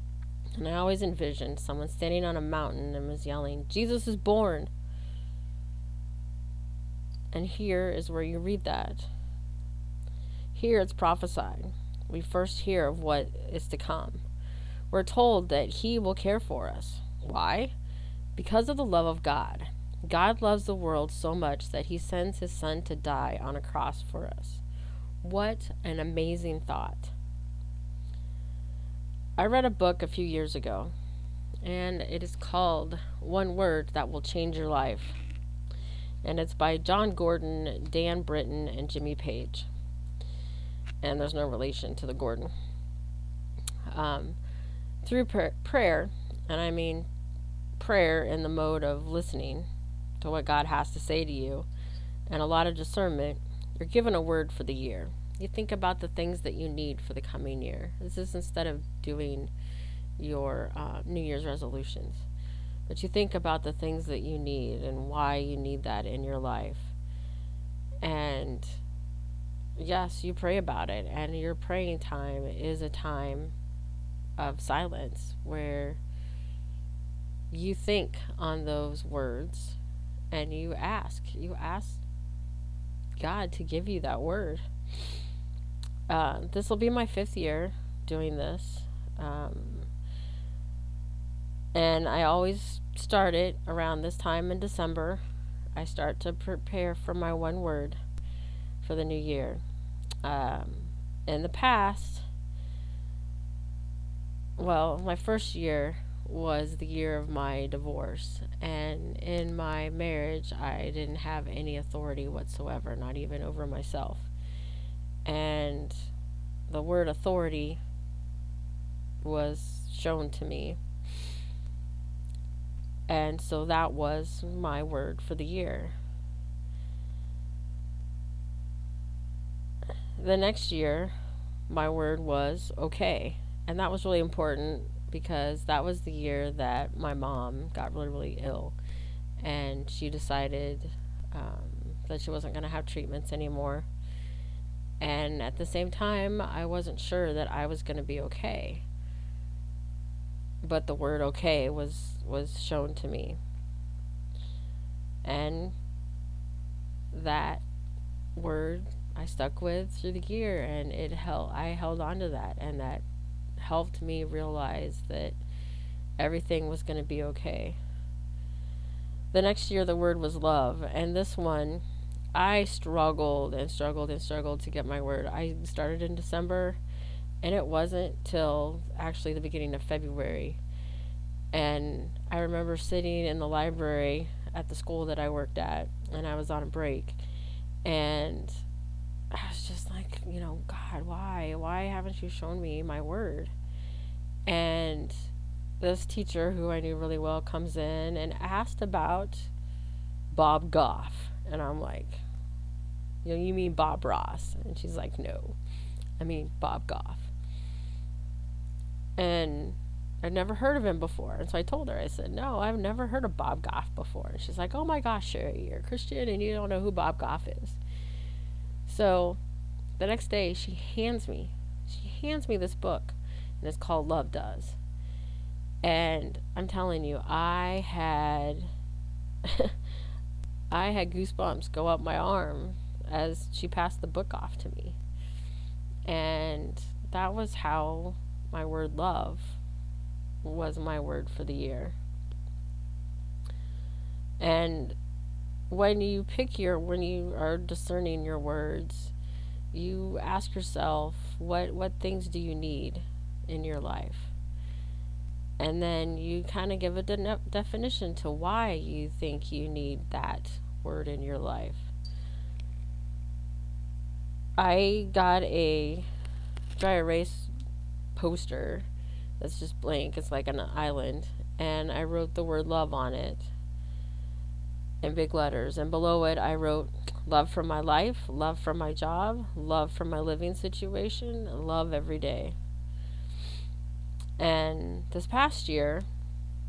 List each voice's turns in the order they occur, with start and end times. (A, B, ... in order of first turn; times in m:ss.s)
0:00.6-0:04.7 A
0:07.3-0:09.1 A
0:10.5-0:14.2 A
0:14.9-0:17.7 A
0:18.4-0:24.6 A
0:25.2-0:27.1 A
0:29.4-0:30.9 A
0:31.6-0:35.2 A
0:36.2-0:39.7 A
0:41.0-0:42.5 A
0:43.9-0:44.4 A
0:45.0-0:47.1 A
0:47.8-0:49.7 A
0:50.2-0:51.7 A
0:52.3-0:59.5 A
1:00.2-1:02.3 A
1:02.9-1:06.9 A
1:08.0-1:08.8 A
1:09.8-1:13.5 A
1:14.4-1:16.0 A
1:17.5-1:19.8 A
1:20.3-1:22.0 A
1:23.2-1:24.7 A
1:26.1-1:29.9 A
1:31.7-1:35.2 A
1:35.7-1:38.0 A
1:38.8-1:39.6 A
1:40.2-1:42.3 A
1:44.6-1:54.3 A
1:55.2-1:56.1 A
1:56.7-1:57.8 A
1:59.2-2:00.8 A
2:03.1-2:06.0 A
2:10.2-2:11.1 A
2:11.7-2:18.8 A
2:19.4-2:23.9 A
2:25.0-2:28.8 A
2:30.6-2:33.4 A
2:35.2-2:35.8 A
2:37.1-2:37.6 A
2:38.4-2:43.0 A
2:43.6-2:45.4 A
2:46.2-2:47.8 A
2:49.3-2:51.8 A
2:52.3-2:56.8 A
2:57.4-3:00.6 A
3:01.5-3:07.2 A
3:07.8-3:08.6 A
3:09.3-3:13.5 A
3:14.4-3:19.5 A
3:20.3-3:22.2 A
3:23.2-3:25.6 A
3:26.2-3:27.3 A
3:29.2-3:37.8 A
3:38.8-3:39.4 A
3:40.0-3:44.8 A
3:45.8-3:48.7 A
3:49.4-3:49.8 A
3:50.7-3:55.0 A
3:56.0-3:59.6 A
4:00.4-4:02.0 A
4:04.4-4:05.0 A
4:05.7-4:09.1 A
4:09.7-4:14.3 A
4:15.6-4:21.9 A
4:24.6-4:26.1 A
4:26.8-4:27.5 A
4:28.2-4:28.9 A
4:29.4-4:33.5 A
4:35.0-4:42.6 A
4:44.4-4:46.1 A